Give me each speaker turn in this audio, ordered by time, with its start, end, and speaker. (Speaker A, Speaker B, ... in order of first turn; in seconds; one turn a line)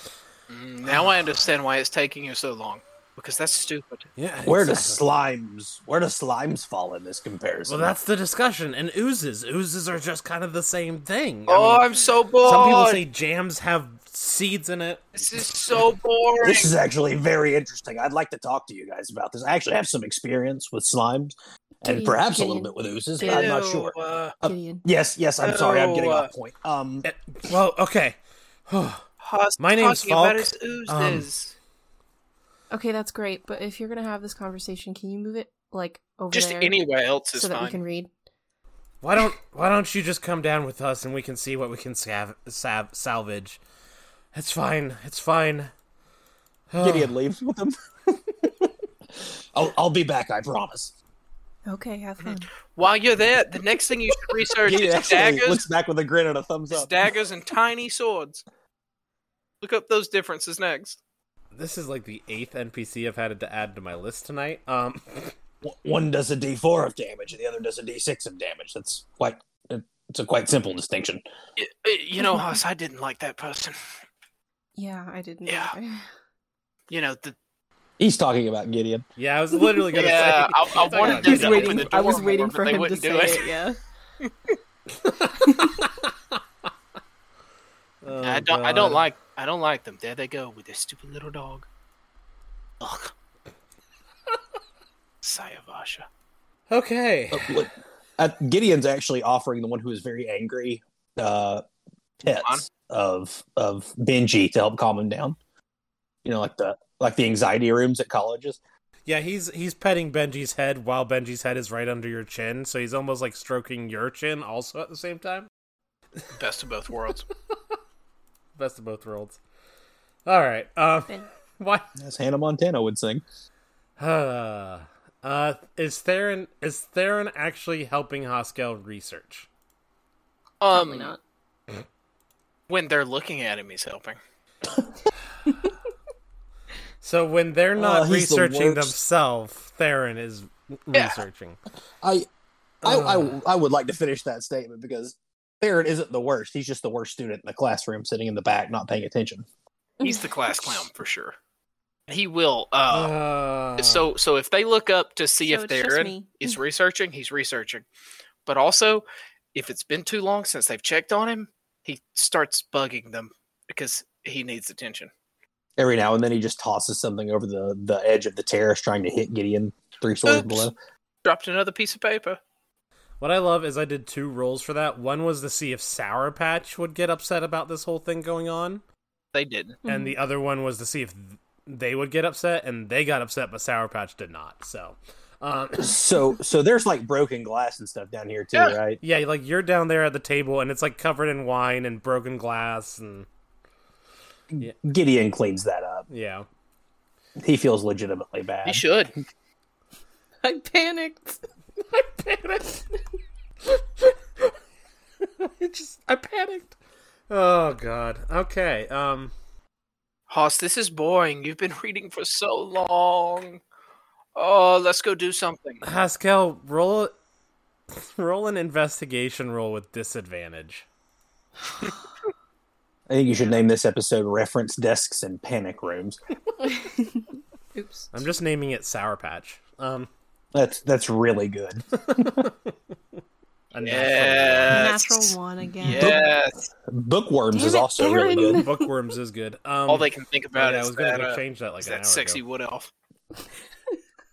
Speaker A: 0.5-4.1
Speaker B: 4.2-5.0
Speaker C: 4.5-7.9
Speaker B: 7.7-15.1
Speaker A: 11.5-13.0
Speaker A: 15.1-16.7
Speaker C: 16.4-27.1
Speaker D: 21.8-23.6
Speaker A: 23.2-24.3
Speaker D: 24.4-24.8
Speaker A: 25.4-26.3
Speaker B: 27.0-28.2
Speaker B: 28.7-29.1
Speaker A: 29.2-31.5
Speaker B: 29.6-31.2
Speaker D: 32.7-36.8
Speaker A: 36.3-37.8
Speaker D: 37.3-38.1
Speaker B: 39.0-43.6
Speaker B: 44.3-45.7
Speaker B: 46.7-47.1
Speaker C: 46.8-50.9
Speaker D: 51.7-52.5
Speaker A: 52.2-55.6
Speaker C: 54.6-56.9
Speaker A: 56.7-58.4
Speaker A: 59.6-61.0
Speaker B: 61.5-65.3
Speaker C: 65.6-71.2
Speaker A: 71.6-73.8
Speaker D: 74.8-76.0
Speaker A: 75.5-75.7
Speaker A: 76.9-77.3
Speaker C: 78.0-79.0
Speaker B: 79.2-81.9
Speaker D: 79.5-80.1
Speaker A: 79.9-83.5
Speaker D: 80.8-83.8
Speaker B: 85.0-86.1
Speaker B: 88.0-89.0
Speaker A: 88.2-91.7
Speaker A: 92.8-93.1
Speaker A: 95.2-96.1
Speaker B: 96.7-97.7
Speaker C: 97.3-101.6
Speaker C: 102.2-105.4
Speaker C: 106.2-108.6
Speaker B: 109.0-115.5
Speaker A: 116.3-117.2
Speaker B: 118.6-119.4
Speaker B: 120.2-121.9
Speaker C: 122.0-123.2
Speaker B: 124.0-129.5
Speaker A: 130.6-131.1
Speaker D: 130.7-131.2
Speaker A: 132.7-134.2
Speaker B: 137.0-141.6
Speaker C: 137.8-138.9
Speaker A: 140.9-141.2
Speaker C: 142.0-142.3
Speaker C: 142.8-149.4
Speaker B: 142.8-143.4
Speaker D: 150.0-150.3
Speaker A: 150.0-151.3
Speaker A: 152.1-153.1
Speaker B: 152.9-154.1
Speaker A: 153.8-157.8
Speaker D: 155.4-156.5
Speaker A: 158.4-165.1
Speaker C: 165.8-170.7
Speaker A: 170.2-170.7
Speaker A: 171.2-172.4
Speaker B: 173.2-178.8
Speaker A: 179.3-179.8
Speaker D: 179.8-180.2
Speaker B: 179.9-186.0
Speaker C: 185.8-189.0
Speaker B: 189.0-193.2
Speaker C: 194.5-196.1
Speaker B: 196.1-196.5
Speaker C: 197.4-198.8
Speaker A: 198.6-199.1
Speaker D: 200.4-201.4
Speaker B: 201.9-202.8
Speaker B: 203.7-204.5
Speaker B: 205.2-206.8
Speaker B: 207.3-209.3
Speaker A: 210.3-213.6
Speaker A: 214.3-215.8
Speaker B: 215.8-217.1
Speaker B: 217.9-220.8
Speaker C: 223.1-226.2
Speaker D: 226.6-228.1
Speaker B: 228.1-230.1
Speaker C: 230.5-232.5
Speaker B: 232.1-232.7
Speaker B: 233.7-235.0
Speaker A: 233.8-236.7
Speaker D: 234.7-236.2
Speaker C: 236.0-236.3
Speaker C: 236.9-238.6
Speaker D: 237.5-238.9
Speaker B: 238.2-242.4
Speaker A: 239.9-242.9